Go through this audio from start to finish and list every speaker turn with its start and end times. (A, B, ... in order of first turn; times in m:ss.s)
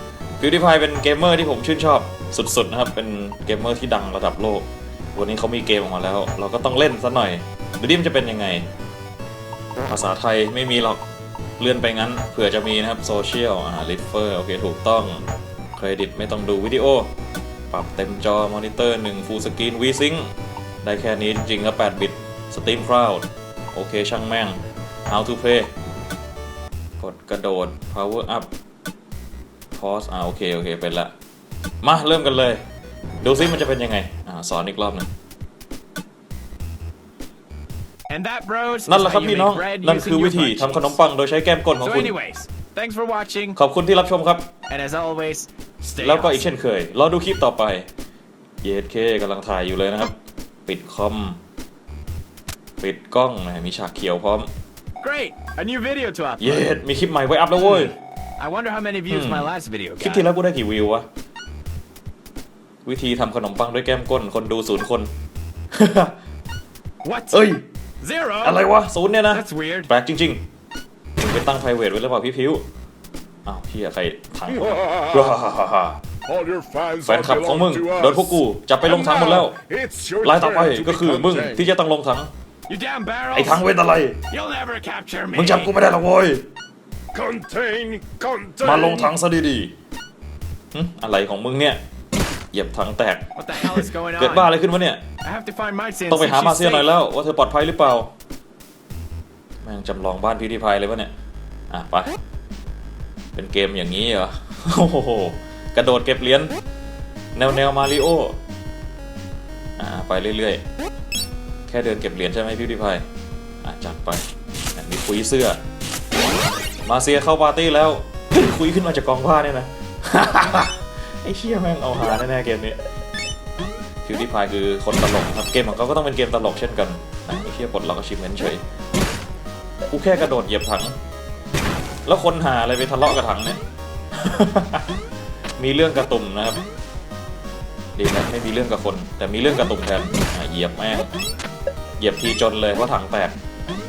0:00.4-0:08.6 A
0:09.9-0:11.0 A
0:11.6-0:15.2 A
0:15.8-0:17.1 A
0:17.7-0:20.3 A
0:20.8-0:24.6 A
0:25.1-0:25.7 A
0:27.0-0:28.5 A
0:29.8-0:31.1 A
0:31.8-0:32.6 A
0:33.2-0:35.1 A
0:38.1-0:41.0 B
0:38.9-0:42.1 A
0:41.8-0:43.6 B
0:43.6-0:44.5 A
0:44.7-0:46.5 B
0:46.0-0:47.9 A
0:48.6-0:50.1 A
0:50.7-0:51.4 A
0:52.8-0:54.5 A
0:55.0-0:56.7 B
0:56.4-0:57.9 A
0:57.6-1:00.3 B
0:59.1-1:01.0 A
1:02.8-1:05.1 A
1:05.7-1:06.1 A
1:07.0-1:07.5 B
1:07.3-1:07.6 A
1:08.0-1:08.6 B
1:08.4-1:10.4 A
1:09.3-1:09.9 B
1:11.2-1:12.6 A
1:13.4-1:16.0 A
1:14.5-1:15.3 C
1:16.2-1:21.6 C
1:17.0-1:19.6 A
1:20.2-1:22.3 A
1:22.7-1:23.6 B
1:23.3-1:24.2 A
1:24.3-1:25.7 B
1:25.3-1:26.4 A
1:27.1-1:29.1 C
1:28.6-1:29.7 A
1:30.7-1:31.8 A
1:32.5-1:35.0 A
1:33.4-1:34.5 B
1:35.2-1:36.9 B
1:36.1-1:38.1 A
1:39.6-1:41.1 A
1:41.7-1:42.1 A
1:43.3-1:46.5 A
1:47.4-1:48.4 A
1:49.8-1:50.6 A
1:51.7-1:53.0 A
1:53.6-1:54.2 A
1:54.8-1:55.6 A
1:56.8-2:02.8 A
2:04.0-2:08.6 A
2:09.9-2:10.9 A
2:12.0-2:13.6 A
2:14.1-2:14.8 A
2:15.6-2:16.6 A
2:18.0-2:21.1 A
2:22.0-2:23.3 A